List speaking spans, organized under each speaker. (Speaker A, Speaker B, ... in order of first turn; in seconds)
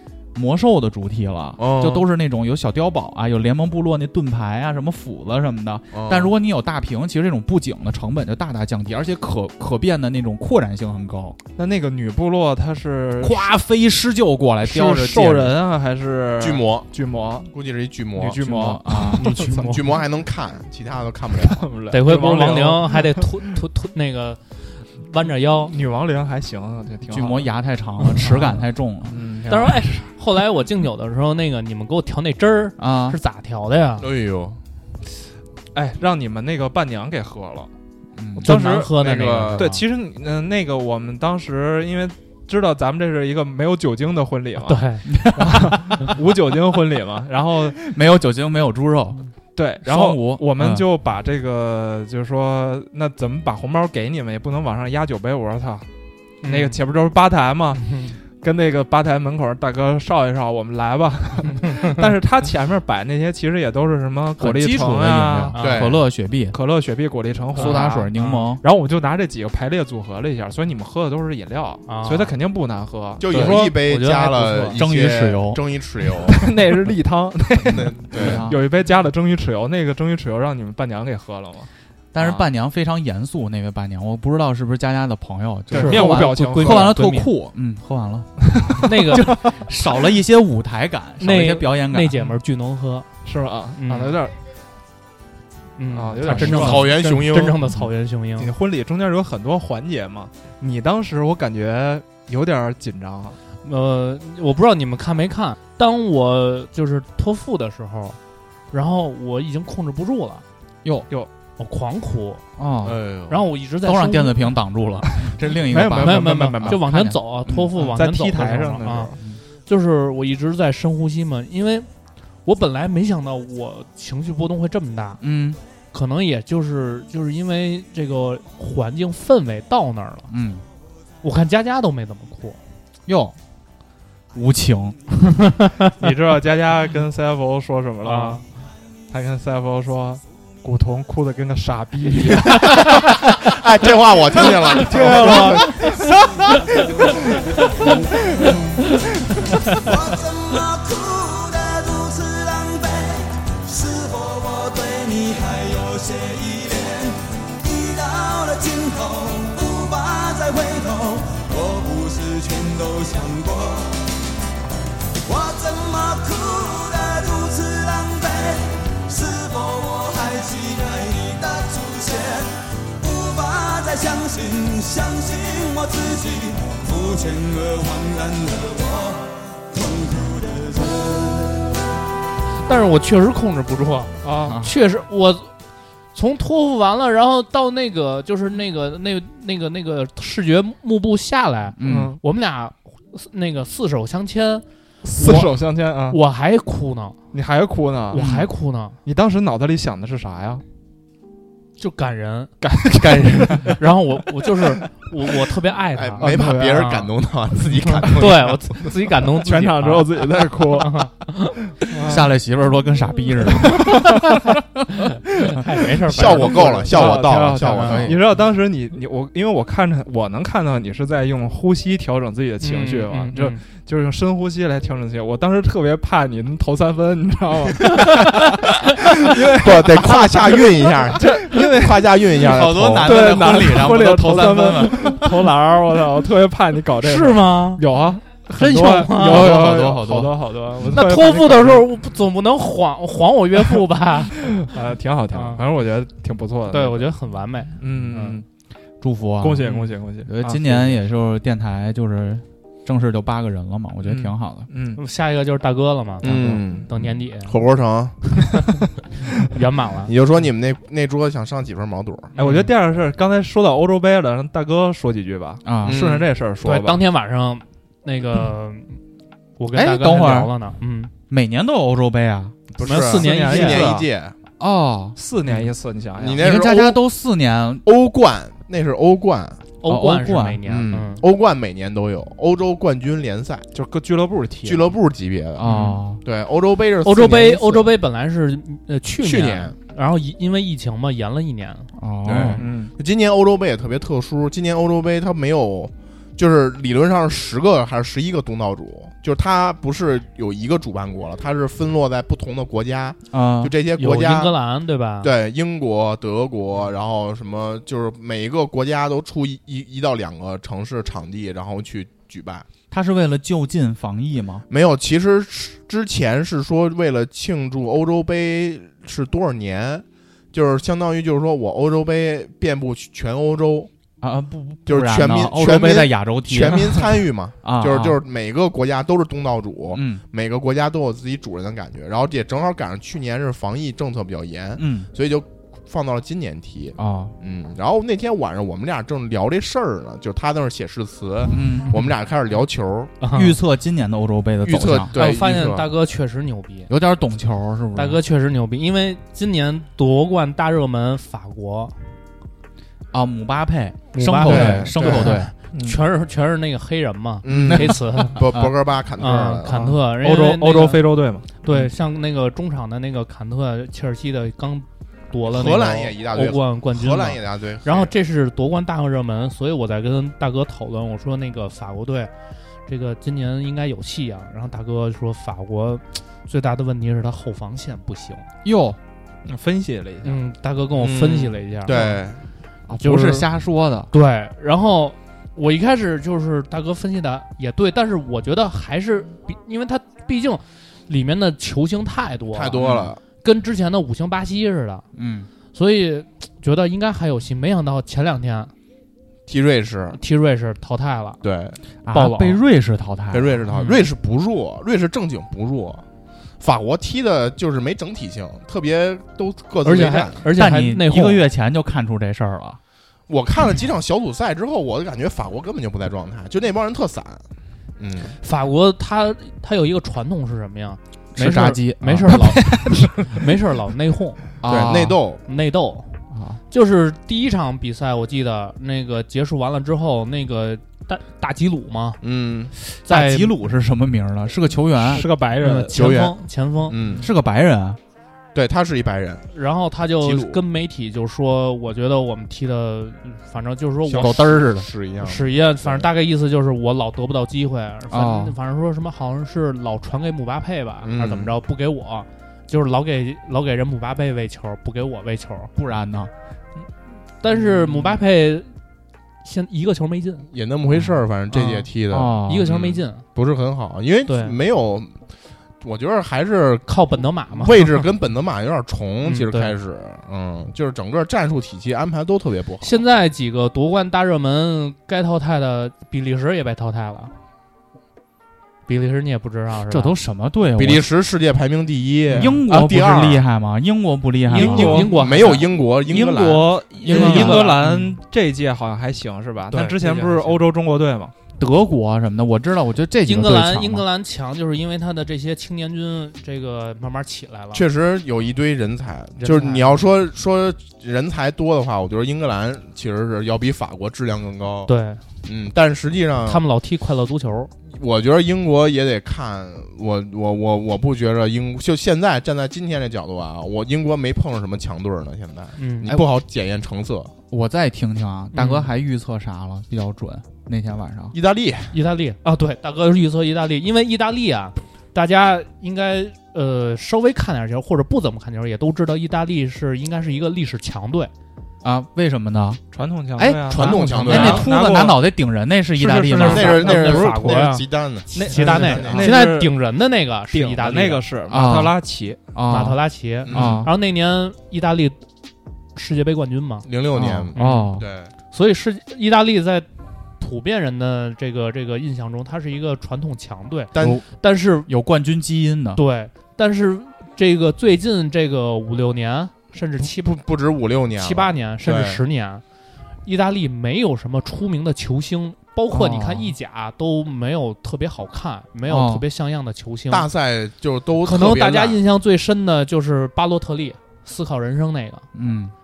Speaker A: 0.3-11.4, 13.2-15.6, 18.4-19.3, 27.1-29.2, 32.8-33.2, 38.2-38.6, 45.1-45.9, 47.9-49.2, 49.8-50.9, 64.4-66.6, 67.5-68.6, 73.3-73.6, 74.7-75.6, 78.2-78.6, 82.1-92.2, 96.3-96.8, 112.6-113.1, 113.8-117.5, 119.2-119.4, 125.2-125.6, 130.3-130.7, 133.1-133.4, 134.3-135.0, 184.5-184.7, 191.8-192.2, 198.1-198.5, 212.1-214.2, 217.8-218.2, 232.4-235.4, 239.2-240.4, 249.0-249.7, 250.2-254.7, 256.2-256.6, 265.6-266.0, 269.7-270.5, 271.3-272.6, 274.6-275.2, 276.4-277.9, 279.9-280.6, 285.6-286.2, 292.0-292.6, 303.3-303.7, 312.9-314.6, 324.2-328.2, 329.9-330.2, 334.8-335.1, 337.0-337.4, 341.5-342.1, 343.3-345.1, 346.9-348.2, 353.1-355.5, 357.5-357.9, 378.6-379.0, 382.9-384.1, 392.8-393.1, 395.1-395.5, 402.0-403.6, 410.5-412.8, 421.4-422.7, 424.6-425.2, 426.3-426.6, 432.9-435.3, 437.2-438.0, 448.1-448.6, 455.8-456.3, 462.1-462.7, 479.9-481.1, 482.3-485.2, 487.0-488.2, 491.6-494.1, 517.5-521.4, 531.8-532.8, 533.4-537.2, 541.5-542.0, 542.5-543.9, 547.1-548.1, 554.0-554.2, 554.9-556.0, 565.9-566.5, 568.9-569.2, 575.3-575.8
Speaker B: 1.6-2.0, 5.9-6.3, 16.4-16.9, 17.5-18.4, 19.5-21.7, 34.0-34.6, 39.0-39.7, 65.6-66.0, 73.2-76.5, 77.6-78.5, 96.4-97.6, 112.8-113.5, 142.6-145.8, 206.0-208.9, 216.1-218.2, 229.6-233.5, 256.2-256.9, 257.4-258.6, 260.1-262.3, 265.9-266.3, 272.7-274.4, 276.2-277.0, 277.9-279.6, 280.6-283.7, 284.6-287.9, 289.2-289.8, 292.3-304.6, 305.2-312.7, 314.7-323.9, 324.9-343.1, 344.6-345.9, 354.5-355.4, 357.4-359.9, 365.5-368.1, 381.0-382.4, 392.5-393.2, 399.5-400.2, 401.4-401.8, 403.3-406.0, 406.6-410.5, 413.3-417.4, 418.0-418.4, 424.6-425.4, 432.2-432.7, 435.9-437.3, 438.5-439.5, 440.2-440.6, 444.1-446.1, 451.0-451.6, 460.5-465.2, 465.8-466.9, 467.5-473.0, 480.8-483.4, 484.9-486.8, 497.7-504.9, 505.4-506.6, 507.9-517.3, 521.3-522.0, 533.7-534.7, 536.4-539.3, 543.5-543.9, 546.9-548.3, 553.9-554.2, 560.0-562.2, 570.1-572.0
Speaker C: 11.6-13.5, 14.6-17.5, 18.1-19.7, 21.4-23.2, 25.7-27.5, 29.1-29.8, 35.7-37.7, 38.4-39.0, 39.5-47.9, 49.6-55.9, 56.4-65.6, 66.5-68.1, 68.6-73.7, 76.3-82.5, 85.7-86.9, 93.2-94.4, 95.9-97.0, 98.4-103.4, 115.7-116.8, 117.8-119.2, 136.0-138.4, 139.1-142.9, 144.4-145.9, 184.2-184.6, 191.8-192.2, 195.0-196.2, 197.3-198.2, 199.0-200.6, 202.6-203.8, 206.2-206.9, 209.4-211.1, 211.8-212.3, 216.3-232.4, 233.0-241.9, 244.5-247.1, 247.8-248.4, 249.4-251.0, 254.0-255.0, 262.4-267.0, 272.9-274.1, 275.2-276.4, 283.7-284.9, 285.6-286.0, 292.6-292.9, 355.7-356.0, 360.2-361.5, 379.5-380.4, 422.6-423.1, 435.1-436.0, 484.5-491.3, 532.9-535.2, 536.0-537.1, 538.3-539.7, 540.5-542.4
Speaker D: 19.2-19.8, 21.9-25.7, 29.5-34.1, 38.4-39.7, 44.7-45.0, 56.4-56.8, 57.9-58.1, 65.5-65.8, 67.6-68.5, 71.9-72.3, 73.3-74.8, 85.8-87.3, 88.8-89.3, 91.2-93.1, 93.8-94.2, 95.8-98.5, 103.6-108.2, 108.7-110.5, 111.6-112.4, 113.3-114.4, 116.0-119.1, 119.7-121.9, 122.5-125.2, 125.9-130.3, 131.2-132.6, 138.0-138.4, 182.7-185.5, 186.1-194.6, 195.2-197.2, 198.1-199.0, 201.8-202.5, 203.6-207.1, 207.9-211.6, 215.4-217.1, 217.7-217.9, 222.6-223.6, 237.0-237.8, 238.5-239.5, 240.9-244.7, 245.3-245.6, 246.7-248.4, 255.0-256.3, 256.9-257.5, 259.5-260.1, 262.4-262.7, 266.6-269.0, 269.6-271.1, 272.8-273.9, 279.8-281.2, 287.0-291.9, 304.0-305.3, 343.2-343.6, 345.1-346.9, 347.9-352.1, 354.1-358.4, 359.2-361.0, 361.6-372.3, 372.9-378.5, 380.2-382.1, 383.0-383.5, 384.1-392.8, 393.4-395.1, 395.7-398.7, 400.1-401.4, 402.1-402.6, 403.7-404.0, 409.8-411.4, 418.4-424.5, 425.5-432.2, 433.1-433.6, 435.4-437.0, 439.5-455.7, 457.4-458.7, 459.4-460.5, 461.5-461.9, 462.5-463.3, 464.3-464.6, 466.9-468.0, 469.2-469.7, 472.8-477.3, 478.9-480.1, 484.5-485.6, 487.1-487.9, 489.7-490.6, 493.2-497.8, 499.4-500.0, 504.9-505.2, 506.4-507.7, 515.8-516.1, 518.5-518.9, 521.9-531.3, 536.4-541.2, 542.7-545.2, 546.0-546.9, 547.5-547.9, 548.5-549.9, 550.4-554.9, 556.0-560.3, 561.2-562.6, 563.2-570.3, 571.2-575.3
Speaker E: 149.8-164.0, 165.2-181.7